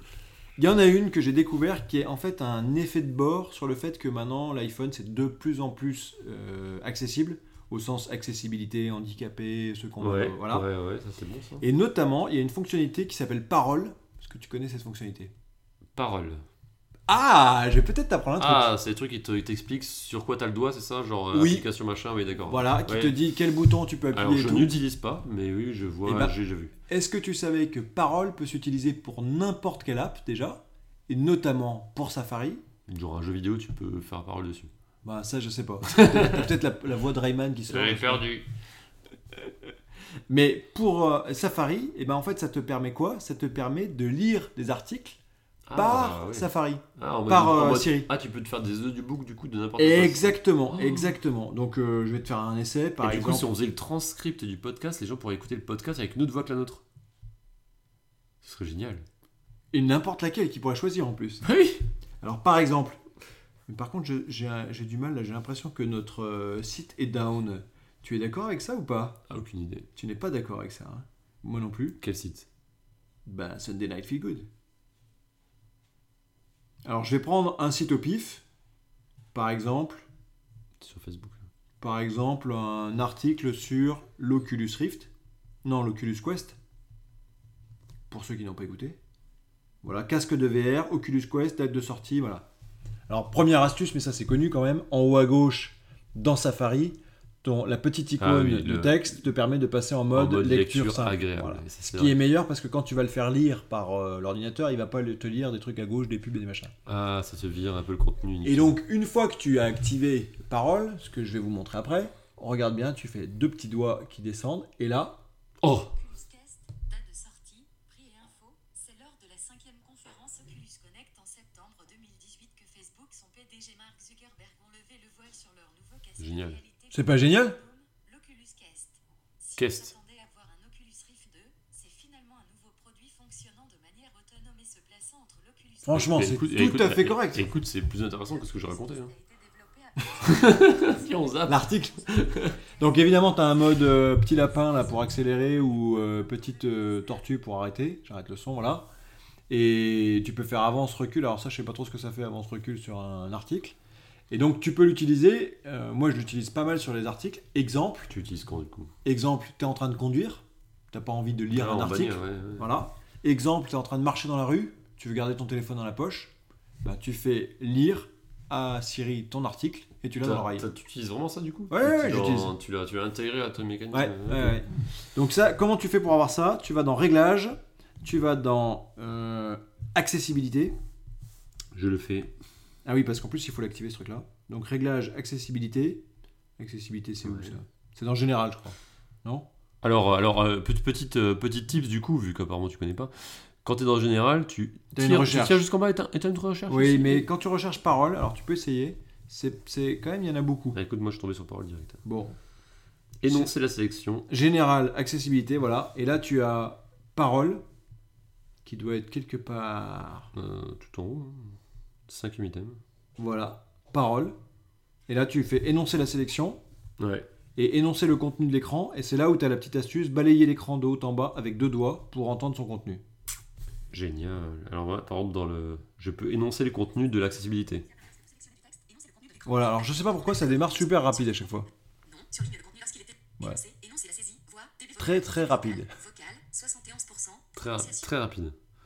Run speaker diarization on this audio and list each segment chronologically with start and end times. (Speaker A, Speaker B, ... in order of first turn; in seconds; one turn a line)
Speaker A: 0.6-10.7
Speaker B: 10.0-11.7
Speaker A: 11.6-15.3
Speaker B: 16.0-16.4
Speaker A: 17.1-18.7
Speaker B: 18.4-23.2
Speaker A: 21.3-21.6
Speaker A: 22.4-24.8
Speaker B: 24.1-26.7
Speaker A: 26.1-32.6
Speaker B: 32.9-34.7
Speaker A: 35.0-38.2
Speaker B: 35.9-36.5
Speaker B: 37.7-38.5
Speaker A: 40.3-45.2
Speaker B: 45.7-51.1
Speaker A: 45.7-48.1
Speaker A: 49.8-53.5
Speaker B: 53.0-56.8
Speaker B: 58.4-59.0
Speaker A: 59.7-61.4
Speaker B: 61.4-61.8
Speaker A: 62.2-63.0
Speaker A: 63.7-69.2
Speaker B: 69.3-69.9
Speaker A: 70.0-72.0
Speaker B: 72.0-72.5
Speaker A: 73.3-74.5
Speaker A: 76.8-78.4
Speaker A: 79.3-80.1
Speaker B: 80.8-81.5
Speaker A: 81.8-85.1
Speaker A: 85.6-86.6
Speaker A: 88.1-89.0
Speaker A: 89.8-92.5
Speaker A: 93.1-106.7
Speaker B: 98.2-99.2
Speaker B: 100.1-102.2
Speaker B: 106.9-108.7
Speaker A: 108.4-115.2
Speaker B: 115.6-115.9
Speaker C: 115.9-136.2
Speaker B: 126.2-126.6
Speaker A: 126.9-127.6
Speaker B: 129.6-129.9
Speaker A: 135.8-137.5
Speaker B: 135.9-139.1
Speaker C: 138.2-147.2
Speaker B: 140.2-142.6
Speaker A: 141.5-142.0
Speaker A: 142.8-148.9
Speaker A: 149.5-153.8
Speaker A: 154.3-158.1
Speaker B: 158.1-158.9
Speaker A: 159.1-170.7
Speaker B: 161.5-162.7
Speaker B: 170.2-174.6
Speaker A: 171.7-172.5
Speaker A: 173.9-180.8
Speaker B: 181.7-182.3
Speaker A: 182.8-186.0
Speaker A: 186.6-189.5
Speaker B: 187.2-187.5
Speaker B: 189.8-197.3
Speaker A: 194.9-195.6
Speaker A: 196.7-200.8
Speaker B: 200.7-202.0
Speaker A: 202.1-202.4
Speaker B: 203.2-204.3
Speaker A: 204.3-207.6
Speaker A: 208.6-210.3
Speaker B: 210.3-212.8
Speaker A: 213.2-214.3
Speaker A: 215.1-216.6
Speaker B: 217.0-217.3
Speaker A: 217.6-223.0
Speaker B: 223.9-227.8
Speaker C: 228.3-231.3
Speaker A: 229.4-231.7
Speaker C: 232.1-238.1
Speaker A: 235.0-235.9
Speaker B: 237.6-238.6